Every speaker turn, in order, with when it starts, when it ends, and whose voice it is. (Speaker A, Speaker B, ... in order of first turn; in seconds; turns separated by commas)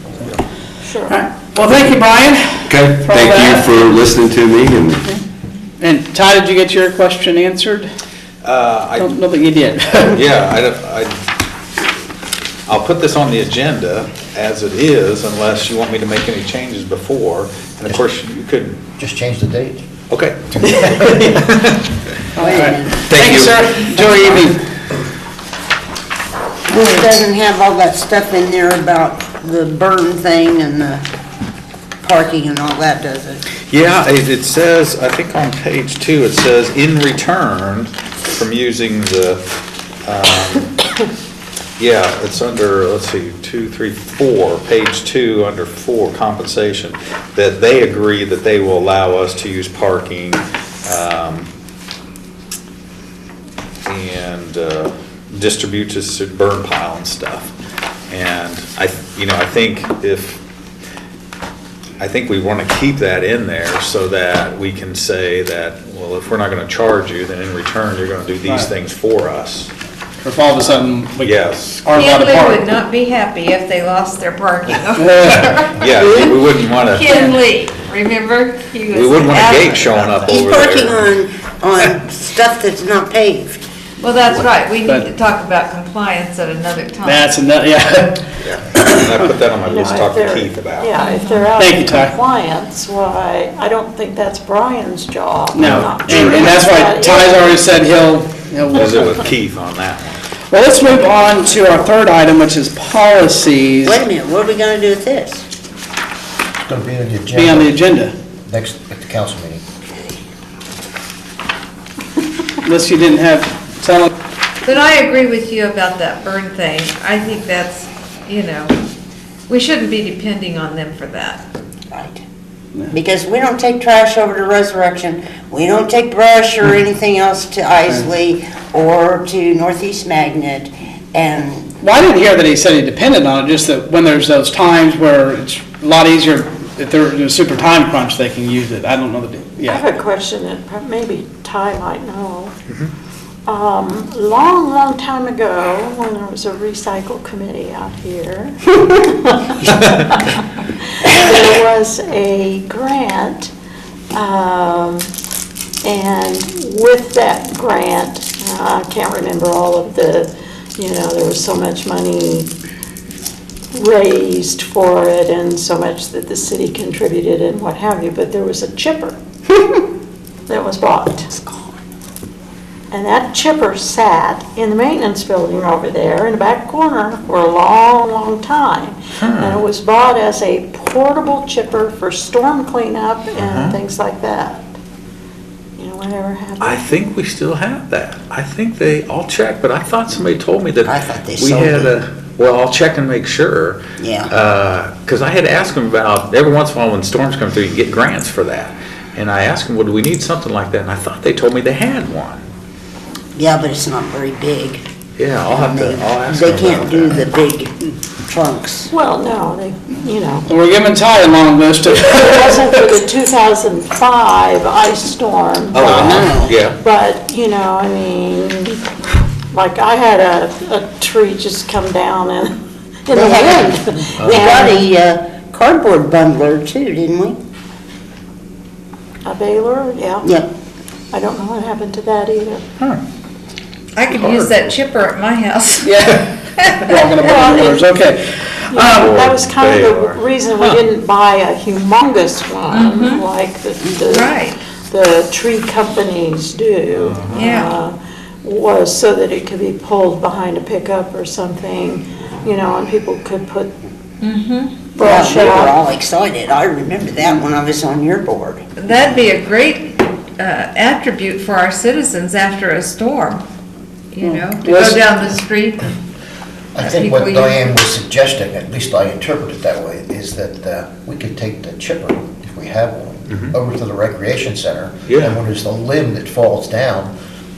Speaker A: 0.8-1.2, Speaker B: 1.1-4.0, Speaker C: 2.7-5.0, Speaker B: 5.8-7.9, Speaker D: 8.4-9.2, Speaker B: 9.0-10.2, Speaker D: 10.1-11.1, Speaker D: 12.7-18.8, Speaker E: 19.0-19.9, Speaker D: 20.1-21.9, Speaker B: 20.9-21.3, Speaker F: 22.4-24.5, Speaker B: 22.4-24.6, Speaker D: 23.1-23.9, Speaker F: 26.7-31.0, Speaker F: 32.0-33.5, Speaker D: 33.7-39.4, Speaker D: 40.0-40.7, Speaker D: 41.8-51.5, Speaker D: 53.9-57.5, Speaker D: 58.1-60.4, Speaker D: 62.0-69.7, Speaker B: 68.4-68.7, Speaker B: 70.2-72.7, Speaker D: 71.2-71.9, Speaker G: 71.9-80.4, Speaker B: 75.0-75.4, Speaker D: 75.2-77.4, Speaker D: 78.9-81.1, Speaker F: 80.3-83.7, Speaker G: 84.0-87.3, Speaker B: 87.0-89.1, Speaker D: 88.4-90.9, Speaker A: 89.7-97.7, Speaker G: 91.0-91.5, Speaker B: 91.5-92.2, Speaker B: 95.5-99.3, Speaker D: 95.6-96.4, Speaker D: 98.8-100.2, Speaker B: 100.5-104.0, Speaker F: 103.8-105.5, Speaker E: 106.6-107.8, Speaker B: 107.3-108.1, Speaker E: 108.5-109.6, Speaker B: 112.6-114.1, Speaker G: 114.6-118.8, Speaker G: 119.5-121.4, Speaker F: 121.9-122.2, Speaker F: 122.9-131.7, Speaker B: 131.8-139.8, Speaker A: 139.7-142.5, Speaker A: 143.5-150.4, Speaker A: 151.0-153.5, Speaker A: 154.1-155.1, Speaker A: 155.8-162.5, Speaker A: 163.7-169.2, Speaker A: 170.5-171.5, Speaker A: 172.9-184.7, Speaker D: 179.2-179.6, Speaker D: 183.4-183.8, Speaker A: 185.8-187.1, Speaker D: 186.6-202.4, Speaker F: 190.8-191.9, Speaker F: 194.0-194.3, Speaker F: 203.3-204.8, Speaker D: 205.2-207.3, Speaker F: 205.5-207.7, Speaker F: 208.2-208.9, Speaker A: 208.9-210.5, Speaker B: 210.5-212.9, Speaker A: 212.1-218.8, Speaker D: 215.7-216.8, Speaker F: 215.8-216.6, Speaker A: 219.5-222.5, Speaker A: 223.1-224.9, Speaker F: 223.1-227.4, Speaker D: 224.2-224.5, Speaker A: 229.2-230.3, Speaker F: 230.2-230.5, Speaker A: 231.1-232.6, Speaker G: 234.0-237.3, Speaker D: 234.1-234.7, Speaker B: 235.8-236.3, Speaker B: 236.9-239.2, Speaker A: 237.2-237.9, Speaker A: 238.7-253.7, Speaker D: 239.0-240.8, Speaker G: 242.7-243.2, Speaker G: 244.1-244.6, Speaker G: 247.3-247.8, Speaker G: 254.2-254.8, Speaker A: 255.0-255.8, Speaker F: 255.0-258.6, Speaker G: 258.8-263.4, Speaker G: 264.1-265.9, Speaker B: 264.2-265.1, Speaker E: 266.7-277.1, Speaker G: 266.8-267.7, Speaker D: 273.3-273.5, Speaker D: 275.1-275.4